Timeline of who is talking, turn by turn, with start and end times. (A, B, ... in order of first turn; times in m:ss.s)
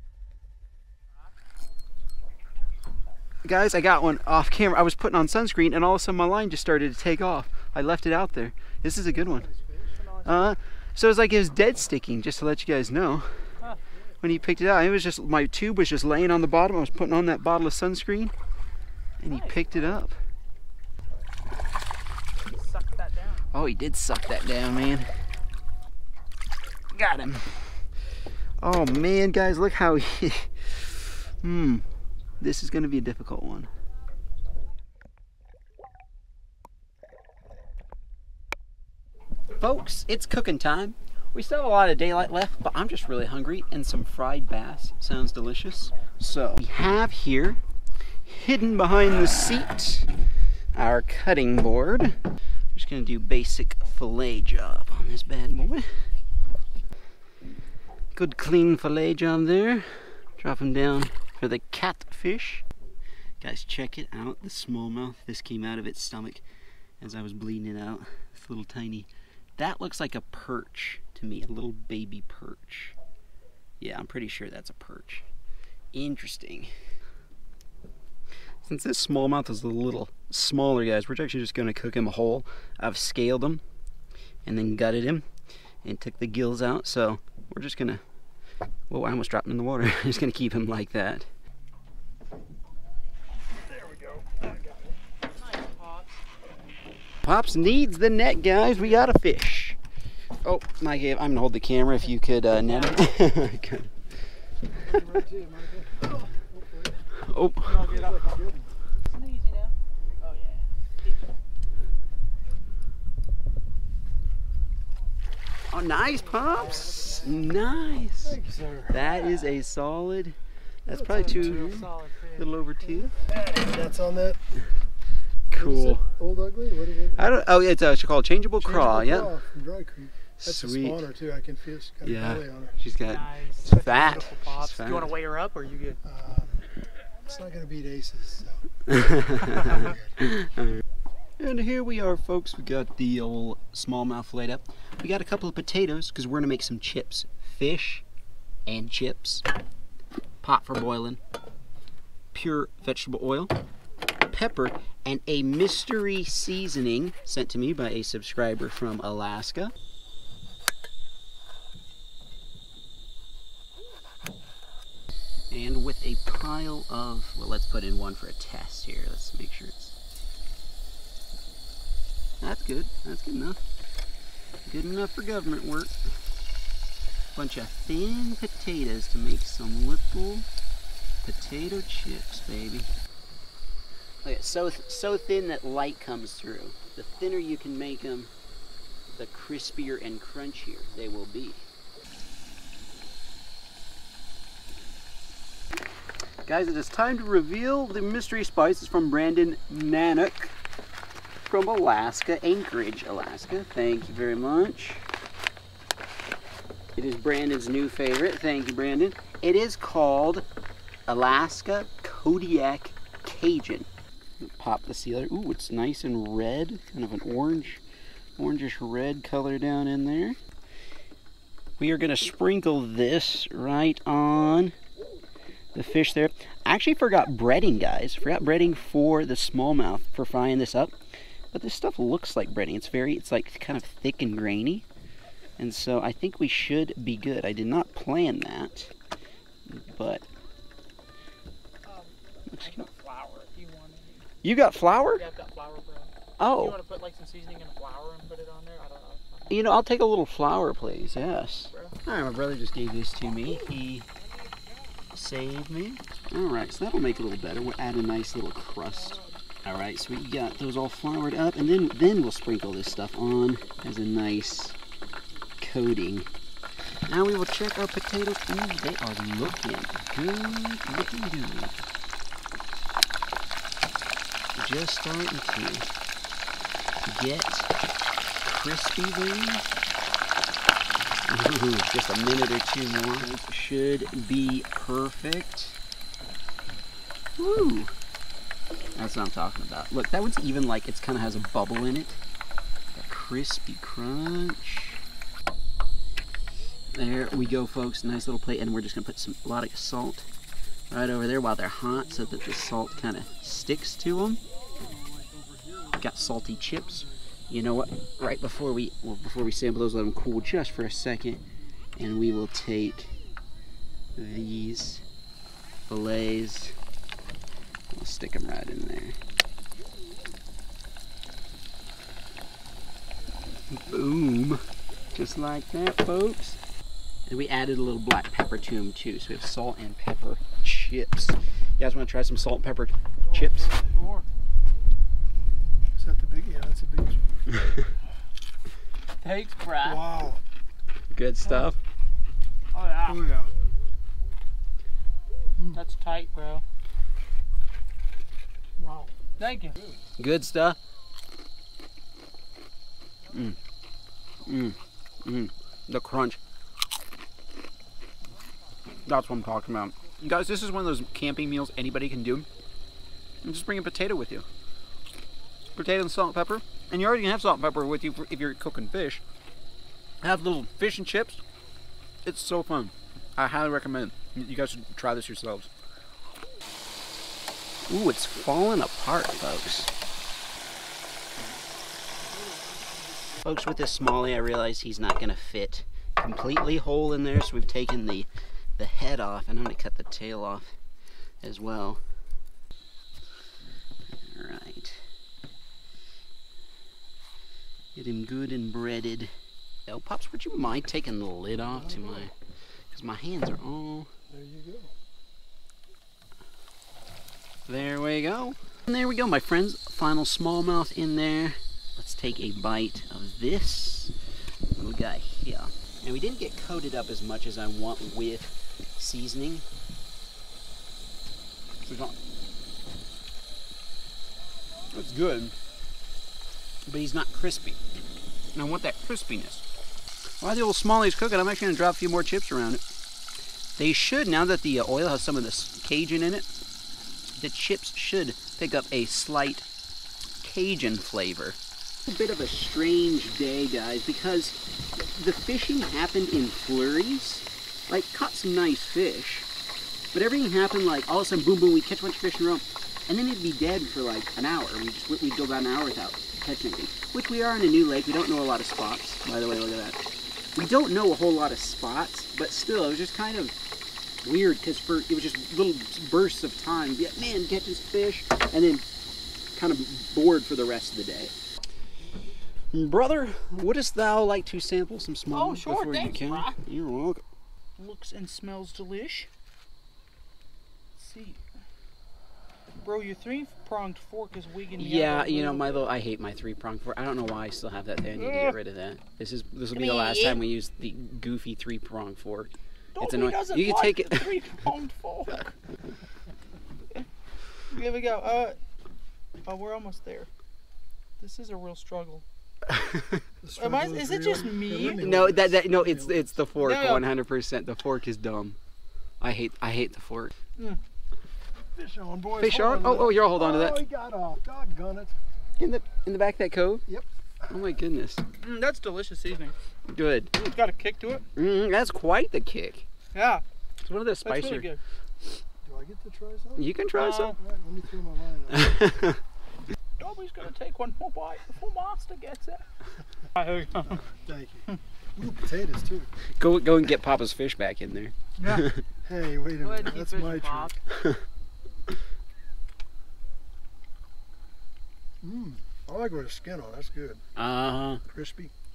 0:03.4-0:09.5 A
0:09.1-0:09.9 B
0:09.9-0:10.5 C
0:10.2-0:13.3 A
0:14.2-0:18.3 A
0:19.2-0:20.2 A
0:19.2-0:19.6 C
0:22.5-0:23.5 C
0:23.5-0:25.1 A
0:26.9-0:27.7 A
0:28.6-0:31.8 A
0:32.4-0:33.7 A
0:39.6-0:47.6 A
0:48.2-0:50.1 A
0:50.7-0:52.2 A
0:52.7-0:55.9 A
0:58.1-1:02.6 A
1:03.4-1:06.4 A
1:07.0-1:12.9 A
1:13.8-1:15.2 A
1:15.9-1:16.7 A
1:18.6-1:23.6 A
1:24.4-1:25.2 A
1:25.8-1:28.0 A
1:28.9-1:31.3 A
1:33.7-1:34.9 B
1:35.2-1:36.2 C
1:37.2-1:39.8 A
1:40.4-1:43.9 A
1:42.6-1:43.0 C
1:44.8-1:47.0 B
1:47.2-1:47.8 A
1:47.6-1:48.4 C
1:47.8-1:48.7 B
1:49.1-1:51.2 C
1:55.7-1:58.4 A
1:56.1-1:57.6 C
1:58.2-1:59.1 B
1:58.9-2:03.1 A
2:00.9-2:01.7 B
2:01.0-2:02.5 C
2:02.8-2:04.4 B
2:05.5-2:06.0 A
2:05.5-2:07.2 B
2:07.2-2:09.3 A
2:08.6-2:12.8 B
2:10.4-2:11.0 A
2:12.0-2:15.1 A
2:13.0-2:16.0 C
2:16.0-2:16.7 B
2:17.2-2:18.6 B
2:18.9-2:20.8 A
2:19.6-2:20.0 B
2:21.4-2:28.0 A
2:28.7-2:29.4 A
2:30.4-2:31.2 A
2:32.3-2:33.5 A
2:34.2-2:39.7 A
2:45.5-2:50.0 A
2:52.4-2:53.6 A
2:54.7-2:56.0 A
2:57.3-3:00.4 A
3:01.2-3:02.9 A
3:04.2-3:08.3 A
3:09.2-3:11.6 A
3:16.4-3:20.6 A
3:21.5-3:25.0 A
3:27.0-3:30.4 A
3:31.1-3:33.9 A
3:34.4-3:37.8 A
3:38.4-3:40.4 A
3:41.8-3:44.7 A
3:45.7-3:50.9 A
3:51.5-3:54.8 A
3:55.6-3:58.9 A
3:59.7-4:00.2 A
4:01.8-4:04.3 C
4:02.5-4:02.8 A
4:04.4-4:05.2 A
4:05.1-4:09.6 C
4:06.4-4:06.8 A
4:09.5-4:14.1 A
4:15.1-4:24.8 A
4:18.9-4:19.4 C
4:25.6-4:26.3 A
4:27.1-4:31.8 A
4:34.5-4:35.9 A
4:37.0-4:37.7 A
4:38.4-4:39.6 A
4:41.2-4:45.8 A
4:47.4-4:47.9 A
4:48.9-4:52.2 A
4:52.9-4:55.0 A
4:56.9-5:00.3 A
5:00.9-5:04.4 A
5:04.7-5:07.1 B
5:06.0-5:11.4 A
5:12.0-5:13.2 A
5:14.2-5:15.0 A
5:15.9-5:16.8 A
5:17.9-5:19.2 A
5:23.7-5:24.6 A
5:25.1-5:26.6 A
5:27.2-5:33.7 A
5:33.2-5:33.9 B
5:33.8-5:34.2 C
5:36.0-5:37.2 B
5:39.2-5:40.0 C
5:39.8-5:40.4 B
5:41.1-5:41.8 A
5:42.7-5:43.2 C
5:43.0-5:43.5 B
5:45.7-5:46.6 C
5:48.8-5:49.2 B
5:49.4-5:49.8 C
5:50.2-5:50.8 A
5:54.4-5:56.4 A
5:59.0-6:02.5 A
6:03.4-6:04.4 A
6:05.8-6:09.2 A
6:10.2-6:11.4 A
6:12.2-6:15.7 A
6:17.9-6:19.9 A
6:22.2-6:23.9 B
6:23.4-6:30.7 A
6:31.4-6:32.0 A
6:34.1-6:35.0 A
6:37.9-6:39.3 A
6:39.9-6:42.3 A
6:41.8-6:42.2 B
6:42.9-6:44.1 A
6:44.3-6:44.9 B
6:47.6-6:54.1 A
6:54.7-6:59.6 A
7:01.8-7:02.1 A
7:04.9-7:05.6 A
7:06.8-7:07.8 A
7:08.5-7:09.6 A
7:10.4-7:12.8 A
7:13.8-7:16.5 A
7:17.3-7:19.7 A
7:20.4-7:29.5 A
7:30.1-7:40.0 A
7:40.5-7:43.6 A
7:44.2-7:48.8 A
7:49.5-7:51.3 A
7:52.7-7:57.2 A
7:55.3-7:56.6 C
7:57.8-7:59.3 C
8:01.0-8:01.4 C
8:02.8-8:05.9 C
8:04.8-8:14.3 A
8:08.2-8:08.6 C
8:09.7-8:10.4 C
8:12.9-8:15.5 C
8:17.7-8:18.6 C
8:19.4-8:20.3 C
8:21.2-8:22.2 C
8:22.8-8:23.0 A
8:23.4-8:26.4 B
8:23.6-8:25.0 C
8:24.9-8:28.6 A
8:26.6-8:27.0 C
8:29.2-8:30.3 A
8:31.7-8:35.2 B
8:32.4-8:33.8 A
8:35.6-8:36.8 A
8:37.5-8:38.2 A
8:38.4-8:39.5 C
8:39.9-8:40.3 A
8:40.3-8:41.2 C
8:41.3-8:42.8 A
8:43.1-8:43.4 C
8:43.8-8:44.7 A
8:44.2-8:44.8 C
8:45.6-8:46.7 B
8:46.6-8:47.3 A
8:47.0-8:47.4 C
8:47.4-8:48.8 B
8:48.5-8:49.2 A
8:50.0-8:52.6 C
8:53.4-8:54.0 C
8:53.8-8:56.1 B
8:56.4-8:58.8 A
8:58.4-8:58.7 C
8:59.0-9:00.7 B
8:59.6-9:00.8 C
9:00.9-9:01.2 A
9:05.2-9:07.2 B
9:07.4-9:08.0 A
9:08.0-9:08.5 B